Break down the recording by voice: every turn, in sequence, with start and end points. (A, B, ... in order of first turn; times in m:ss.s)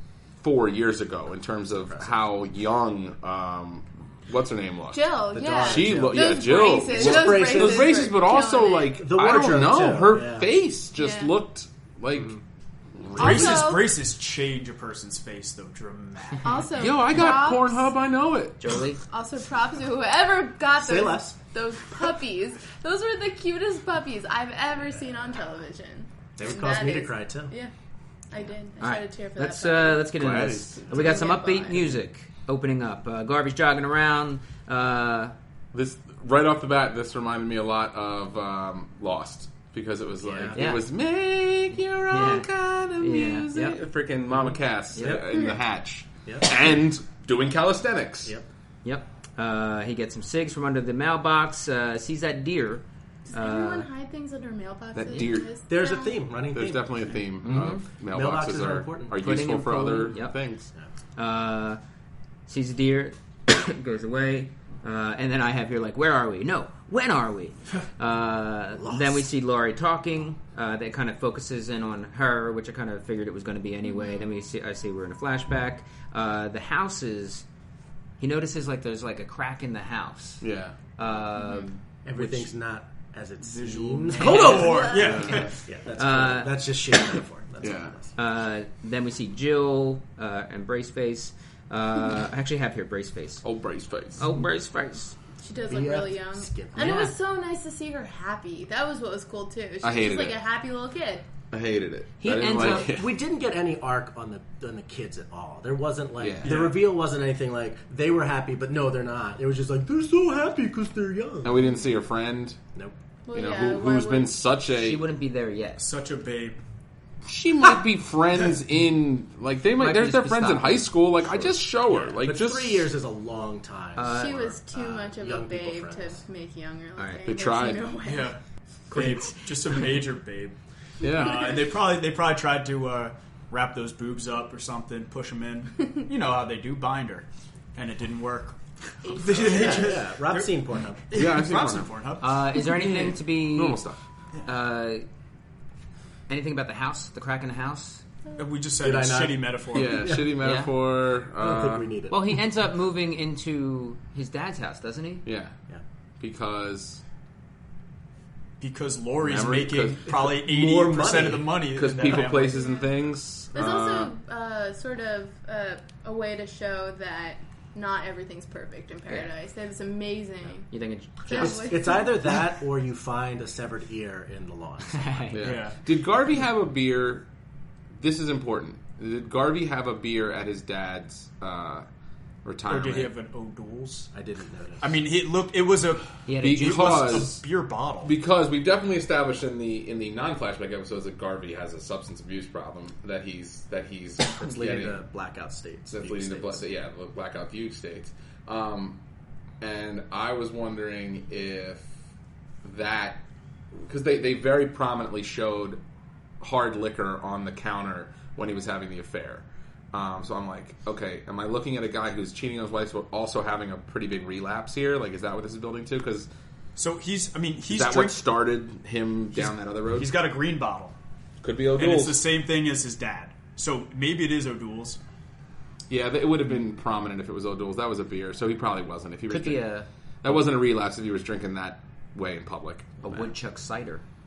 0:00.4-0:05.0 A
0:01.8-0:02.2 B
0:04.9-0:09.0 C
0:05.3-0:08.3 B
0:05.6-0:12.4 A
0:08.9-0:10.5 B
0:11.0-0:11.4 C
0:13.0-0:13.8 A
0:13.2-0:16.8 D
0:13.2-0:13.9 C
0:16.4-0:17.9 C
0:16.8-0:18.8 A
0:18.6-0:19.0 E
0:19.1-0:27.7 C
0:20.8-0:21.4 B
0:26.4-0:27.5 B
0:28.3-0:30.1 C
0:28.8-0:35.4 E
0:30.2-0:31.0 A
0:30.9-0:31.8 C
0:35.7-0:48.4 A
0:40.2-0:40.8 B
0:40.5-0:40.8 E
0:41.7-0:43.8 E
0:44.4-0:45.2 B
0:44.9-0:45.3 E
0:46.3-0:46.5 B
0:48.8-0:53.9 E
0:53.3-0:56.2 C
0:55.0-0:55.5 A
0:55.7-0:59.3 B
0:56.5-1:00.7 A
0:57.4-0:57.8 E
0:59.2-1:00.4 E
1:01.2-1:01.8 E
1:02.5-1:17.4 E
1:08.8-1:09.3 B
1:13.9-1:14.3 C
1:18.2-1:20.4 E
1:20.4-1:20.8 A
1:21.0-1:22.5 E
1:21.3-1:21.6 C
1:22.0-1:28.1 B
1:23.5-1:25.6 D
1:24.2-1:25.0 E
1:24.5-1:25.3 C
1:25.0-1:25.5 A
1:26.0-1:26.6 E
1:27.6-1:28.0 A
1:28.2-1:33.4 E
1:33.4-1:34.2 A
1:34.2-1:35.2 E
1:35.4-1:41.2 C
1:35.7-1:37.0 B
1:36.8-1:37.1 E
1:39.8-1:40.4 A
1:41.5-1:43.1 A
1:42.2-1:43.0 E
1:42.4-1:51.8 B
1:46.2-1:46.7 A
1:46.4-1:46.8 D
1:51.4-1:52.6 A
1:53.3-1:54.4 C
1:53.3-1:55.1 A
1:54.7-1:55.9 E
1:55.8-1:56.6 D
1:57.2-2:02.9 A
1:59.8-2:00.8 E
2:01.9-2:06.2 B
2:04.0-2:04.4 E
2:04.1-2:08.4 C
2:07.0-2:07.3 E
2:07.3-2:07.9 A
2:08.0-2:08.4 D
2:08.9-2:09.5 E
2:08.9-2:10.6 D
2:11.0-2:11.5 A
2:11.1-2:23.2 D
2:19.0-2:20.0 C
2:19.4-2:21.0 B
2:21.1-2:21.9 A
2:22.2-2:23.8 E
2:23.4-2:24.0 A
2:24.4-2:25.1 E
2:26.3-2:28.0 E
2:28.4-2:30.2 D
2:28.8-2:30.4 B
2:29.7-2:31.9 A
2:30.3-2:30.7 E
2:31.4-2:32.4 B
2:32.1-2:35.2 E
2:35.2-2:35.6 A
2:36.2-2:37.0 A
2:38.6-2:42.8 D
2:39.2-2:40.3 A
2:40.3-2:41.7 B
2:41.7-2:44.1 A
2:42.6-2:42.9 C
2:43.5-2:50.7 C
2:50.7-2:51.8 E
2:51.2-2:52.4 C
2:51.3-2:55.3 B
2:54.9-2:55.4 E
2:55.3-2:57.3 A
2:55.4-2:55.8 D
2:58.0-3:01.9 A
3:02.4-3:03.1 A
3:02.7-3:04.1 D
3:04.1-3:05.0 B
3:04.8-3:08.2 D
3:06.3-3:07.2 E
3:06.4-3:07.4 A
3:08.0-3:15.0 A
3:14.4-3:16.6 B
3:15.9-3:19.0 A
3:19.6-3:21.9 A
3:22.6-3:23.2 A
3:23.8-3:25.8 A
3:26.4-3:36.3 A
3:36.8-3:38.2 D
3:37.7-3:40.2 A
3:39.3-3:41.0 D
3:41.4-3:42.3 A
3:41.7-3:45.0 D
3:45.9-3:49.7 A
3:49.3-3:49.9 E
3:50.2-3:53.3 A
3:53.0-3:54.0 E